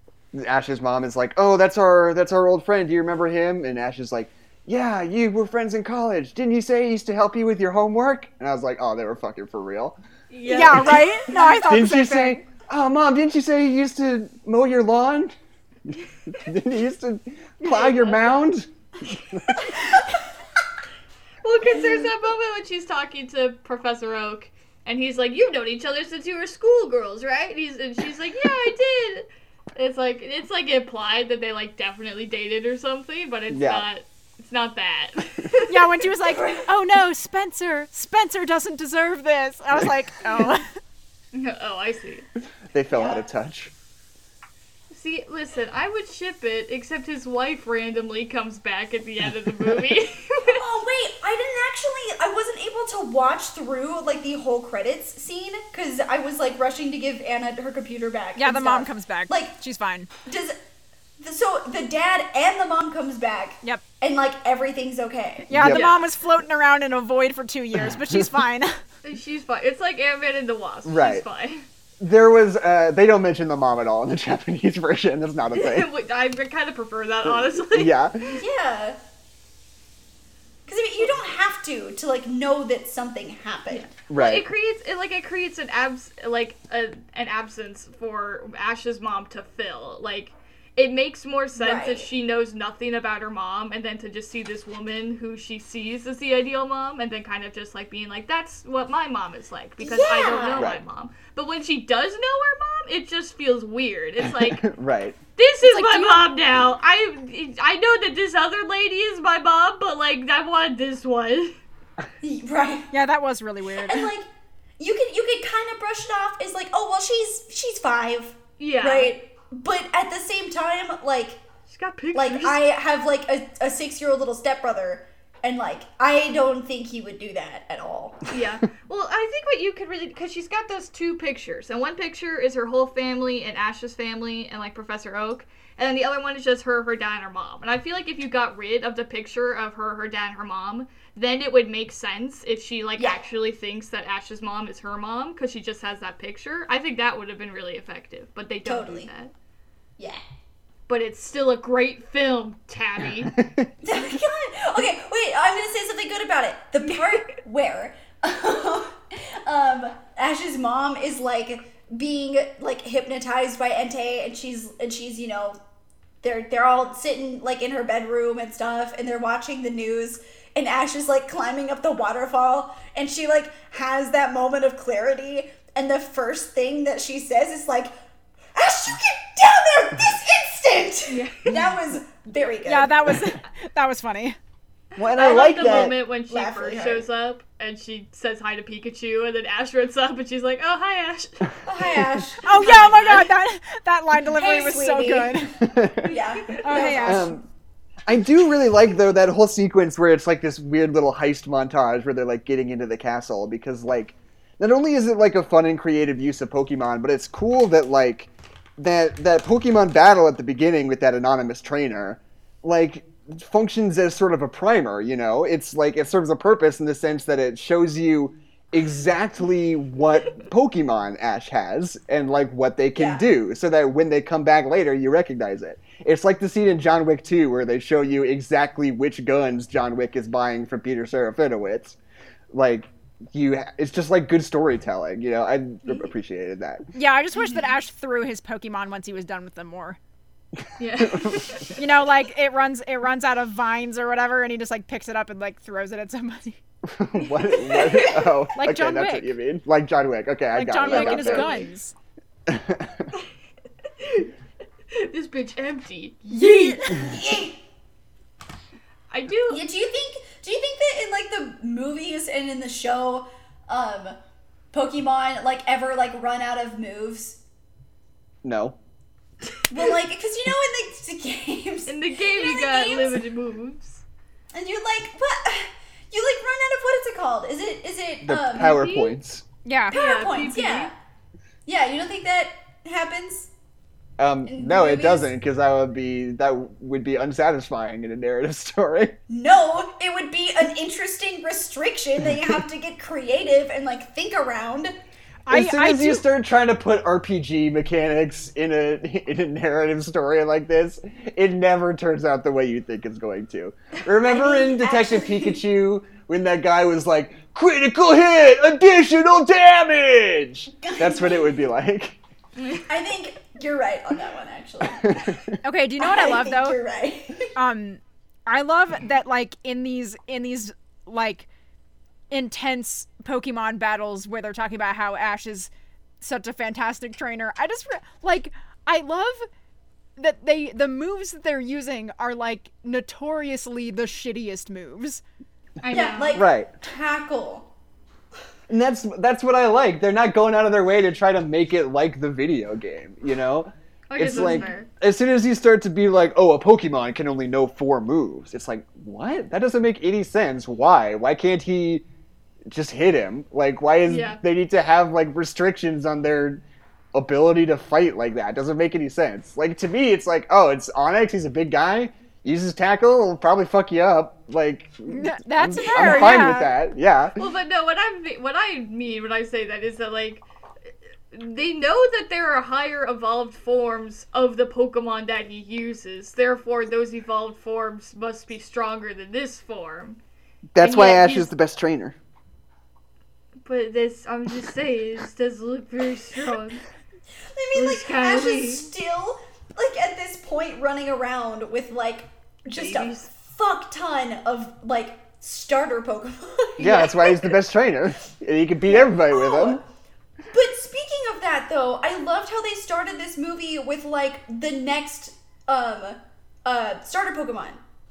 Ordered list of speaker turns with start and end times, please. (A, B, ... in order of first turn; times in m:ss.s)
0:00.3-0:10.0 A
0:10.3-0:11.1 B
0:10.4-0:12.4 C
0:10.8-0:15.3 A
0:15.9-0:18.7 A
0:17.6-0:18.3 B
0:19.3-0:19.6 A
0:21.4-0:36.0 B
0:33.5-0:33.8 A
0:35.7-0:40.7 C
0:41.3-0:42.2 B
0:42.7-0:43.7 A
0:44.9-0:50.6 B
0:50.4-0:59.5 D
0:58.4-1:00.1 C
1:00.2-1:00.6 D
1:01.2-1:05.5 D
1:05.5-1:05.8 A
1:05.5-1:08.7 C
1:05.7-1:06.1 B
1:09.0-1:11.6 B
1:10.8-1:11.2 A
1:12.0-1:15.9 A
1:15.5-1:18.4 B
1:17.2-1:18.4 A
1:18.4-1:19.0 D
1:20.6-1:23.9 D
1:23.7-1:44.6 B
1:24.1-1:24.5 A
1:31.6-1:32.1 D
1:39.8-1:40.7 D
1:40.5-1:40.8 A
1:44.2-1:45.2 A
1:45.4-1:51.6 B
1:45.6-1:46.3 C
1:52.2-1:52.9 D
1:52.9-1:54.1 C
1:53.8-1:54.3 D
1:54.8-2:01.4 D
1:58.6-1:59.1 B
2:01.7-2:02.6 B
2:02.1-2:08.2 D
2:08.3-2:29.3 B
2:28.6-2:29.1 D
2:30.9-2:33.4 B
2:33.8-2:45.6 D
2:36.8-2:37.3 B
2:46.2-2:57.9 D
2:58.5-3:03.1 D
3:01.1-3:01.7 B
3:02.6-3:04.4 C
3:05.0-3:06.0 A
3:05.0-3:11.5 B
3:05.3-3:07.0 D
3:11.6-3:12.6 D
3:12.4-3:15.6 C
3:12.6-3:13.3 B
3:14.3-3:15.5 D
3:15.6-3:16.1 A
3:16.0-3:17.4 D
3:16.0-3:16.9 B
3:16.6-3:17.3 C
3:17.0-3:17.4 A
3:18.0-3:52.0 A
3:42.9-3:43.2 D
3:52.5-3:56.8 A
3:56.9-4:00.0 C
4:00.8-4:01.7 B
4:01.0-4:01.6 A
4:01.8-4:06.6 C
4:06.8-4:11.6 A
4:07.8-4:08.2 D
4:08.5-4:09.3 C
4:10.5-4:11.9 C
4:10.8-4:11.6 B
4:12.5-4:13.1 A
4:14.0-4:14.3 B
4:14.9-4:16.8 B
4:16.3-4:17.6 D
4:16.3-4:16.8 C
4:19.1-4:19.6 B
4:19.5-4:24.2 D
4:24.7-4:27.4 D
4:28.4-4:28.8 A
4:29.7-4:33.2 D
4:31.9-4:34.0 B
4:34.5-4:38.8 D
4:38.2-4:39.4 A
4:38.5-4:39.2 B
4:39.6-4:40.0 C
4:39.9-4:40.9 B
4:39.9-4:40.9 D
4:41.6-4:43.5 D
4:44.2-4:49.1 A
4:44.5-4:45.3 D
4:49.3-4:54.9 D
4:52.2-4:52.6 A
4:55.4-4:56.2 C
4:55.5-5:12.2 A
5:04.2-5:05.6 D
5:10.8-5:11.6 D
5:12.6-5:12.9 B
5:12.9-5:17.5 D
5:14.9-5:15.5 A
5:15.6-5:16.8 C
5:17.5-5:21.5 C
5:22.3-5:29.4 C
5:30.2-5:35.2 C
5:35.8-5:36.4 B
5:35.9-5:37.7 D
5:36.4-5:36.7 A
5:38.7-5:52.0 A
5:44.1-5:44.9 B
5:52.7-5:56.6 A
5:54.1-5:54.4 B
5:57.1-6:07.4 A
6:05.1-6:06.7 C
6:06.0-6:06.5 B
6:07.4-6:10.4 B
6:11.3-6:20.2 B
6:20.7-6:22.2 A
6:20.8-6:21.5 B
6:23.6-6:26.8 B
6:27.5-6:37.6 D
6:27.7-6:28.9 B
6:32.7-6:33.3 B
6:36.8-6:39.8 A
6:38.9-6:39.8 D
6:40.5-6:47.8 D